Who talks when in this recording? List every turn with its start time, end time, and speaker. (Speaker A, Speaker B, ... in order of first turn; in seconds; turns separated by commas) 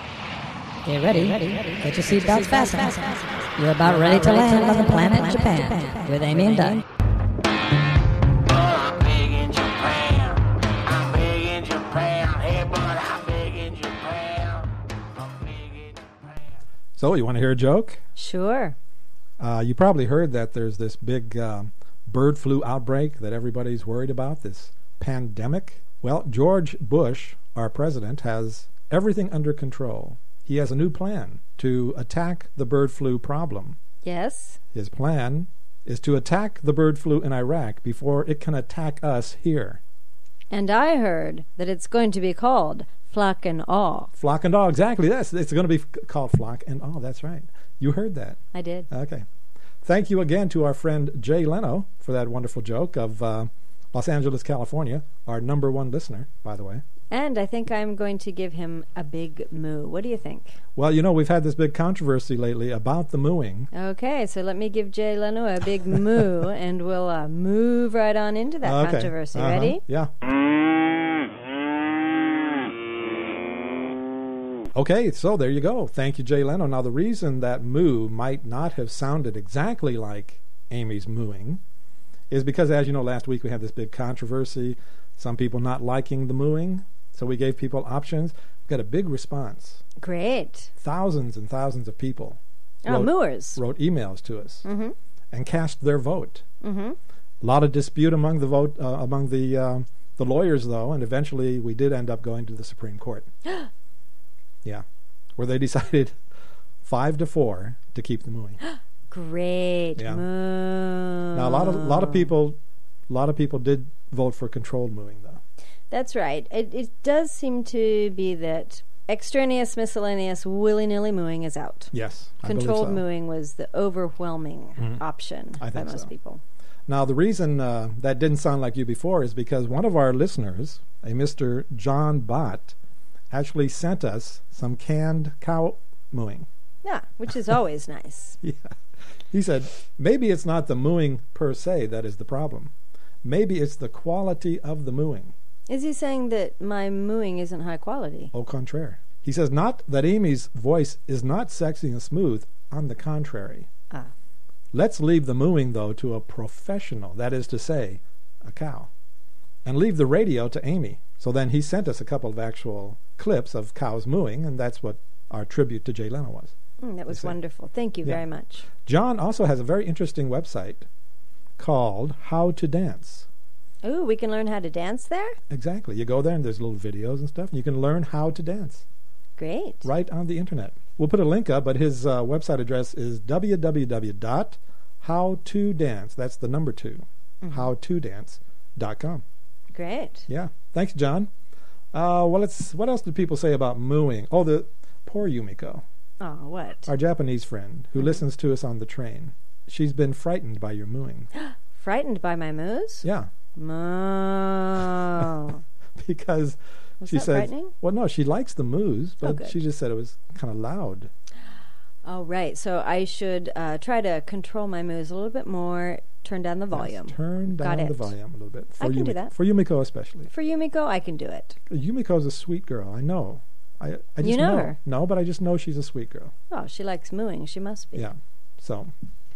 Speaker A: 0.8-6.8, Speaker B: 1.1-6.8, Speaker C: 1.9-2.7, Speaker C: 3.9-5.7, Speaker C: 8.5-16.4, Speaker D: 17.0-18.0, Speaker B: 18.1-18.8, Speaker D: 19.4-33.8, Speaker B: 34.0-34.6, Speaker D: 34.7-39.8, Speaker B: 40.5-44.1, Speaker D: 44.1-48.4, Speaker B: 48.5-48.9, Speaker D: 48.9-49.2, Speaker D: 49.8-56.8, Speaker B: 57.1-60.6, Speaker D: 60.8-63.7, Speaker B: 63.7-69.8, Speaker D: 68.6-70.1, Speaker D: 74.7-81.6, Speaker D: 82.3-89.8, Speaker B: 90.0-90.7, Speaker D: 90.8-94.7, Speaker B: 92.8-93.6, Speaker B: 94.6-94.9, Speaker D: 95.3-96.4, Speaker B: 96.6-97.0, Speaker D: 97.4-103.3, Speaker D: 105.4-106.1, Speaker D: 106.8-108.6, Speaker B: 108.6-112.3, Speaker D: 110.0-110.2, Speaker D: 111.3-112.6, Speaker D: 113.1-115.4, Speaker B: 115.9-121.9, Speaker D: 121.9-123.0, Speaker B: 122.4-126.4, Speaker D: 124.8-125.0, Speaker D: 125.6-126.1, Speaker D: 126.9-132.7, Speaker D: 133.3-136.5, Speaker B: 136.8-138.4, Speaker D: 138.4-138.7, Speaker D: 139.3-142.7, Speaker D: 143.2-145.3, Speaker B: 145.7-148.3, Speaker D: 148.3-153.7, Speaker D: 154.7-158.9, Speaker D: 159.6-166.5, Speaker B: 166.8-168.7, Speaker D: 167.1-167.3, Speaker D: 168.8-170.8, Speaker D: 171.6-173.3, Speaker B: 173.8-175.4, Speaker D: 175.5-178.8, Speaker B: 179.4-179.9, Speaker D: 179.8-189.2, Speaker B: 187.4-187.7, Speaker B: 189.7-190.3, Speaker D: 190.3-191.3, Speaker D: 191.9-195.8, Speaker B: 196.2-196.9, Speaker D: 196.8-201.3, Speaker B: 201.3-205.6, Speaker D: 203.0-203.3, Speaker D: 206.0-211.1, Speaker B: 207.0-207.7, Speaker B: 209.2-209.6, Speaker B: 212.0-218.1, Speaker D: 216.7-220.3, Speaker B: 218.8-219.3, Speaker B: 220.3-221.6, Speaker D: 221.7-226.3, Speaker B: 224.2-224.8, Speaker B: 226.5-228.0, Speaker D: 227.9-228.9